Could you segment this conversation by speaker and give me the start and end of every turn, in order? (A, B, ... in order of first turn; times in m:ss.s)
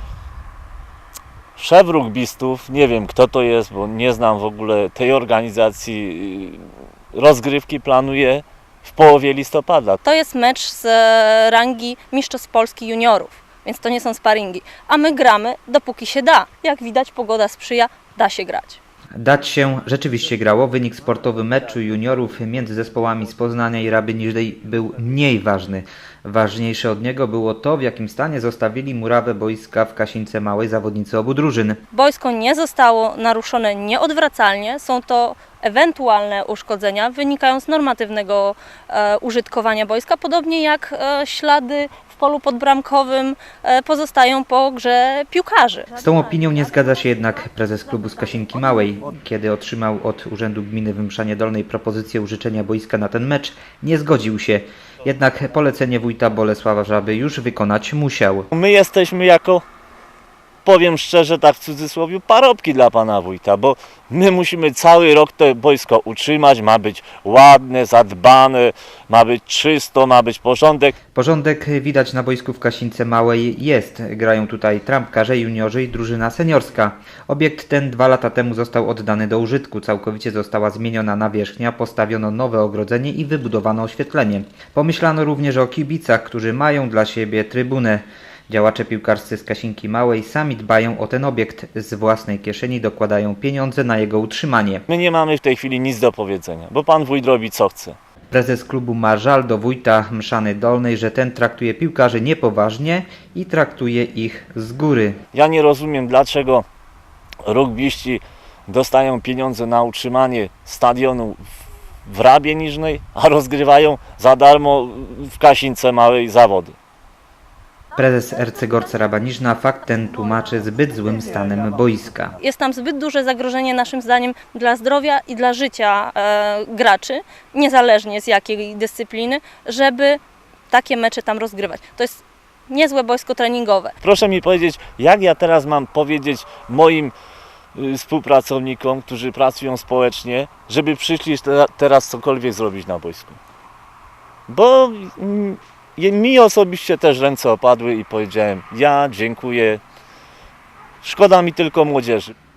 0:01.6-0:10.0 A
0:10.0-0:18.8 B
0:19.2-0:31.8 C
0:31.9-0:45.9 B
0:46.0-0:58.5 C
0:58.5-0:59.6 A
1:00.6-1:10.9 A
1:11.1-1:34.8 C
1:34.9-1:38.0 A
1:38.3-1:45.2 C
1:45.3-1:46.6 A
1:47.4-1:51.4 A
1:52.0-1:56.8 A
1:58.0-2:02.3 C
2:02.4-2:10.2 B
2:10.7-2:13.9 B
2:14.0-2:17.1 A
2:17.7-2:23.4 A
2:24.5-2:29.8 A
2:31.0-2:32.3 A